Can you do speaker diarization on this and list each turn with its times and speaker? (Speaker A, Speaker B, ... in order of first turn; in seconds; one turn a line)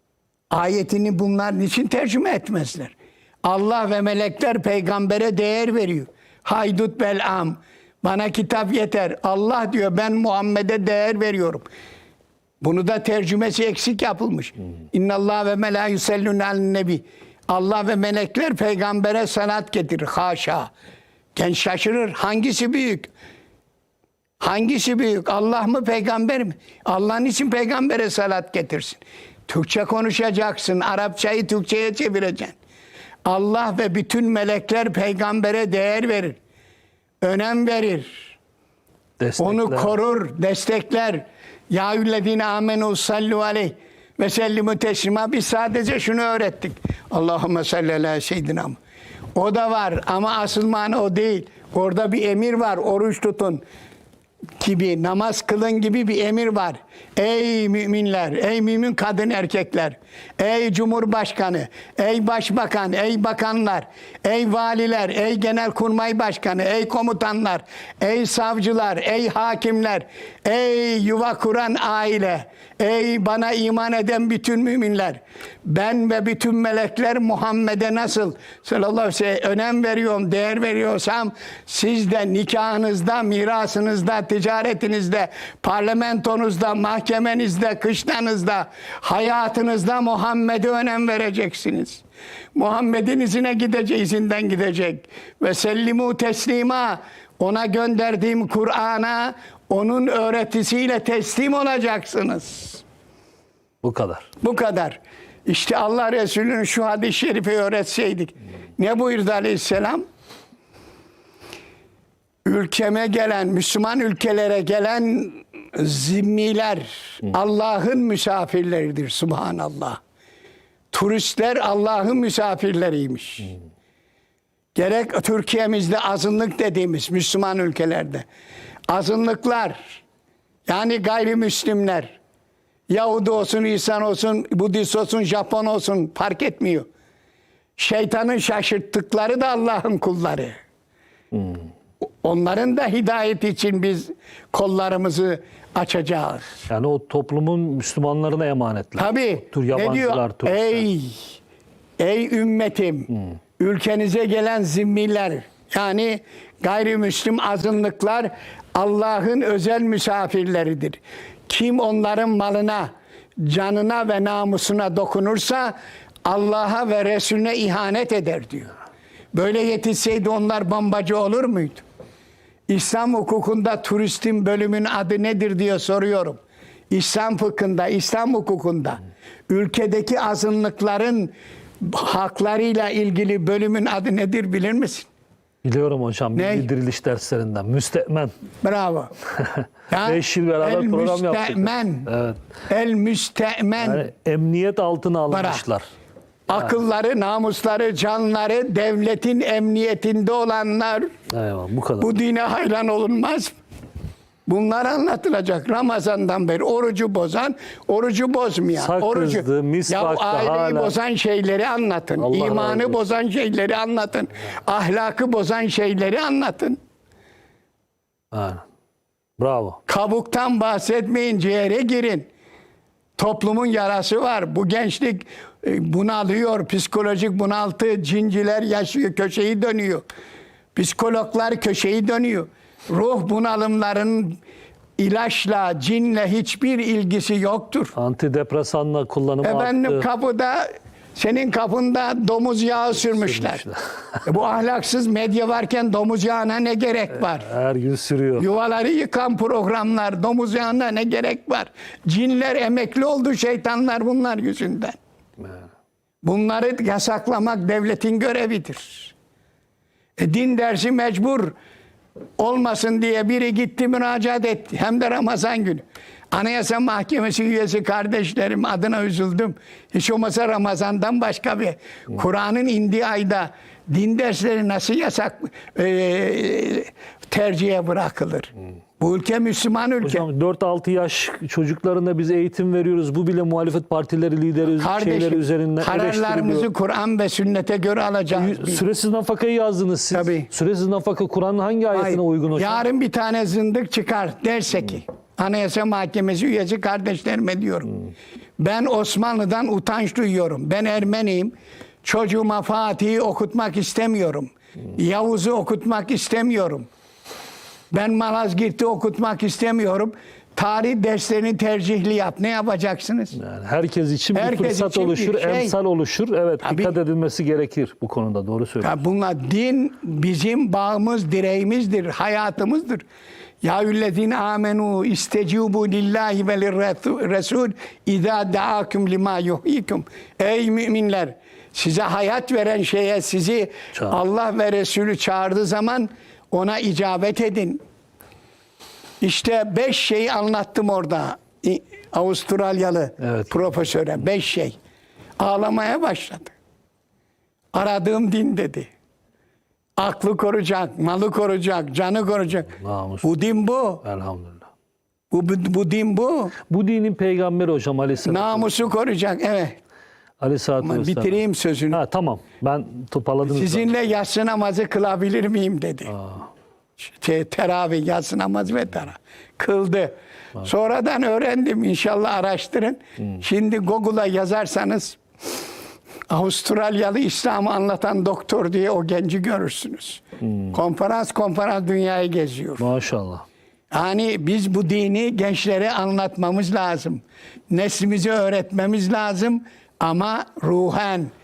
Speaker A: 0.5-11.6
Speaker A: 12.6-20.7
Speaker A: 21.3-23.1
Speaker A: 24.4-32.6
Speaker A: 33.2-36.4
Speaker A: 37.2-38.3
Speaker B: 39.2-39.9
Speaker A: 39.4-48.8
Speaker A: 49.3-53.6
Speaker A: 54.6-92.0
Speaker A: 92.5-102.8
Speaker B: 103.8-104.3
Speaker A: 104.4-110.0
Speaker A: 112.4-120.0
Speaker A: 120.9-123.5
Speaker A: 124.7-128.2
Speaker A: 128.9-130.0
Speaker A: 130.7-132.2
Speaker A: 132.9-136.9
Speaker A: 137.8-140.6
Speaker A: 142.0-146.7
Speaker B: 146.7-150.9
Speaker A: 149.0-151.3
Speaker A: 152.0-162.9
Speaker A: 163.4-168.7
Speaker A: 169.3-171.8
Speaker A: 172.7-185.1
Speaker B: 185.6-188.3
Speaker A: 186.3-186.7
Speaker A: 188.6-189.1
Speaker B: 189.4-192.4
Speaker A: 189.9-192.1
Speaker A: 192.7-194.1
Speaker B: 193.8-195.9
Speaker A: 195.3-195.6
Speaker A: 196.5-201.1
Speaker B: 201.3-202.1
Speaker A: 202.0-203.5
Speaker A: 204.4-216.8
Speaker B: 208.8-210.9
Speaker B: 212.2-213.0
Speaker B: 218.3-218.6
Speaker B: 219.4-219.8
Speaker A: 219.9-222.3
Speaker A: 223.2-230.0
Speaker A: 230.7-234.4
Speaker A: 235.0-237.9
Speaker B: 237.9-240.1
Speaker A: 239.4-243.6
Speaker B: 243.0-244.2
Speaker A: 244.2-247.5
Speaker B: 247.3-248.4
Speaker A: 248.4-255.0
Speaker A: 256.2-259.1
Speaker A: 260.2-261.5
Speaker A: 262.4-280.2
Speaker B: 280.0-286.7
Speaker A: 284.8-288.8
Speaker B: 288.3-292.8
Speaker A: 290.1-290.5
Speaker A: 291.9-297.9
Speaker A: 298.6-306.9
Speaker A: 307.9-313.4
Speaker B: 313.3-318.9
Speaker A: 314.3-315.7
Speaker A: 316.6-316.9
Speaker A: 318.8-323.0
Speaker A: 323.6-337.8
Speaker A: 339.2-344.8
Speaker B: 343.2-343.5
Speaker A: 345.4-346.5
Speaker A: 347.7-348.9
Speaker A: 350.0-354.0
Speaker B: 352.7-353.3
Speaker B: 354.0-354.6
Speaker A: 355.3-356.6
Speaker B: 356.7-358.7
Speaker A: 358.2-359.8
Speaker B: 360.4-361.4
Speaker A: 360.8-362.0
Speaker B: 361.9-363.9
Speaker A: 363.4-366.1
Speaker B: 366.1-366.4
Speaker A: 367.0-375.2
Speaker A: 376.3-382.8
Speaker B: 382.8-383.4
Speaker A: 383.9-391.3